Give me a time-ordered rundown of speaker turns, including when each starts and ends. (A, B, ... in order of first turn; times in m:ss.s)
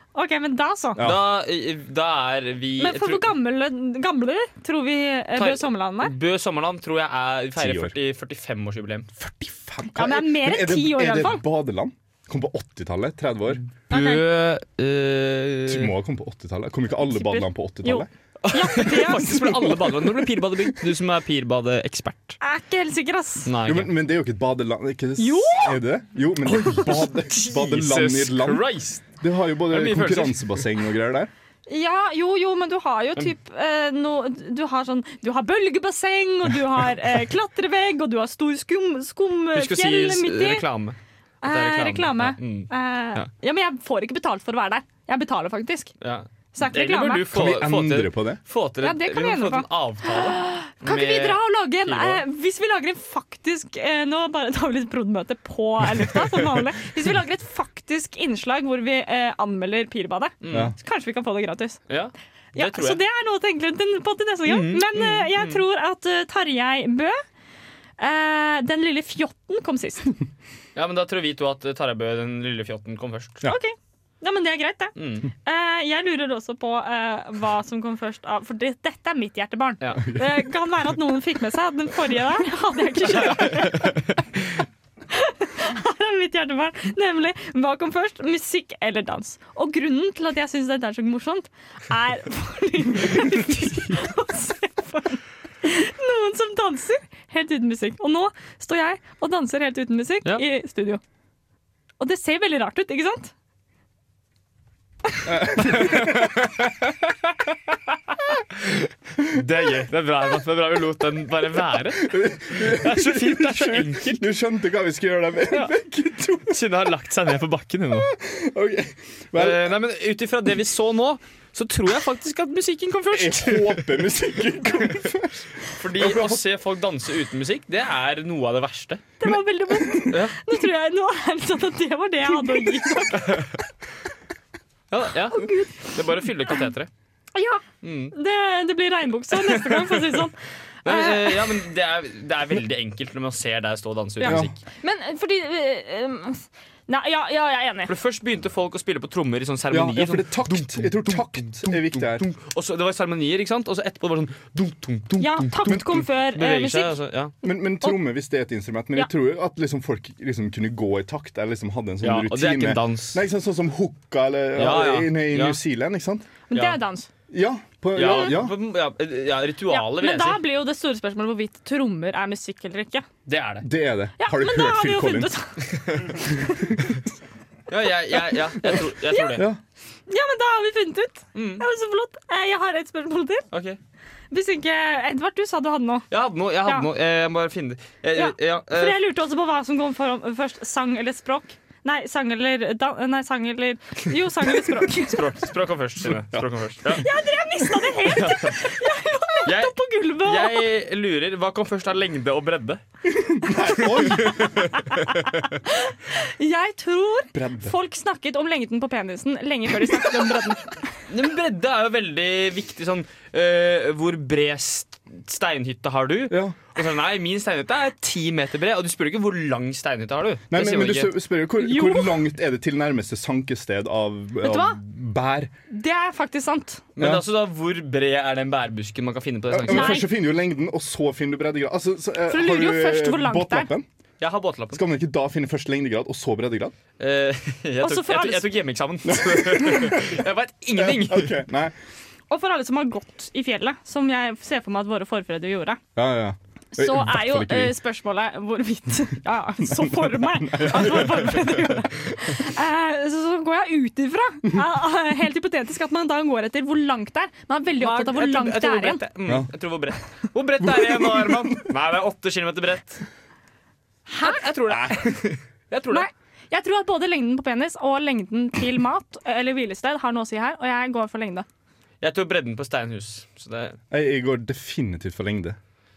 0:00.2-0:01.0 A
0:01.0-0:01.2 B
0:01.0-0:03.3 C
0:02.8-0:06.2 A
0:05.4-0:09.1 C
0:07.6-0:07.9 B
0:09.2-0:13.6 B
0:10.0-0:11.4 A
0:13.7-0:16.0 C
0:13.9-0:14.2 A
0:15.7-0:18.1 B
0:17.0-0:19.7 A
0:18.4-0:22.4 C
0:20.1-0:20.4 B
0:22.4-0:23.5 A
0:23.5-0:23.9 C
0:23.6-0:31.3 B
0:25.2-0:25.8 A
0:26.4-0:29.2 C
0:29.7-0:30.7 C
0:31.7-0:40.6 A
0:39.5-0:43.3 C
0:41.4-0:45.9 A
0:46.0-0:52.2 C
0:46.6-0:47.2 A
0:47.3-0:48.4 B
0:48.8-1:01.8 A
1:00.4-1:00.7 C
1:00.5-1:00.8 B
1:01.9-1:03.0 C
1:02.6-1:07.2 A
1:04.5-1:05.6 C
1:08.0-1:10.2 A
1:10.8-1:13.4 C
1:13.4-1:24.0 A
1:15.0-1:15.3 C
1:23.3-1:24.5 C
1:25.1-1:41.0 A
1:42.0-1:43.3 A
1:45.3-1:46.5 B
1:45.7-1:46.8 C
1:48.6-1:54.3 C
1:52.0-1:56.6 B
1:56.5-1:58.1 C
1:58.0-1:59.7 B
1:59.4-2:04.0 C
2:03.1-2:05.4 B
2:05.7-2:09.1 C
2:06.0-2:06.4 B
2:09.2-2:13.4 A
2:09.2-2:10.2 B
2:10.1-2:10.4 C
2:13.2-2:13.4 C
2:14.9-2:16.9 C
2:15.3-2:16.6 A
2:17.3-2:21.5 A
2:17.8-2:18.2 C
2:19.4-2:20.1 C
2:20.8-2:24.6 C
2:24.2-2:27.9 A
2:24.2-2:24.5 B
2:27.9-2:37.3 C
2:29.7-2:32.2 B
2:35.2-2:37.0 A
2:35.7-2:36.0 B
2:37.4-2:46.3 B
2:42.0-2:43.2 C
2:44.6-2:45.6 C
2:46.5-2:47.1 A
2:47.3-2:48.6 B
2:48.0-2:50.4 C
2:49.7-2:53.1 A
2:53.3-2:53.7 C
2:53.6-2:55.3 B
2:54.2-2:55.6 A
2:55.7-2:56.2 C
2:57.7-2:59.4 C
2:59.1-2:59.4 A
3:00.1-3:03.5 A
3:01.4-3:01.6 C
3:03.5-3:03.8 C
3:04.3-3:06.0 A
3:06.1-3:09.0 C
3:08.2-3:15.3 A
3:14.9-3:17.1 C
3:16.0-3:16.5 B
3:16.9-3:20.7 A
3:18.0-3:18.7 C
3:19.5-3:22.8 C
3:23.1-3:24.7 B
3:23.8-3:25.1 C
3:24.3-3:31.0 A
3:27.3-3:27.8 B
3:31.1-3:41.1 C
3:36.3-3:36.6 B
3:40.5-3:45.5 B
3:41.6-3:42.2 A
3:44.4-3:44.8 A
3:45.7-3:46.8 A
3:47.0-3:50.0 C
3:47.0-3:47.2 B
3:49.5-3:53.9 B
3:49.7-3:50.1 A
3:52.3-3:53.7 A
3:54.2-3:54.8 C
3:54.7-3:56.8 B
3:57.0-4:01.4 C
3:57.8-3:58.5 A
3:59.0-4:00.2 B
4:00.8-4:01.8 B
4:02.3-4:05.8 A
4:06.0-4:07.8 B
4:06.7-4:19.0 A
4:09.7-4:11.6 B
4:17.8-4:23.1 C
4:20.6-4:21.7 B
4:24.1-4:24.4 A
4:24.2-4:26.1 C
4:24.7-4:24.9 B
4:25.9-4:31.5 A
4:32.0-4:33.8 C
4:33.9-4:35.6 B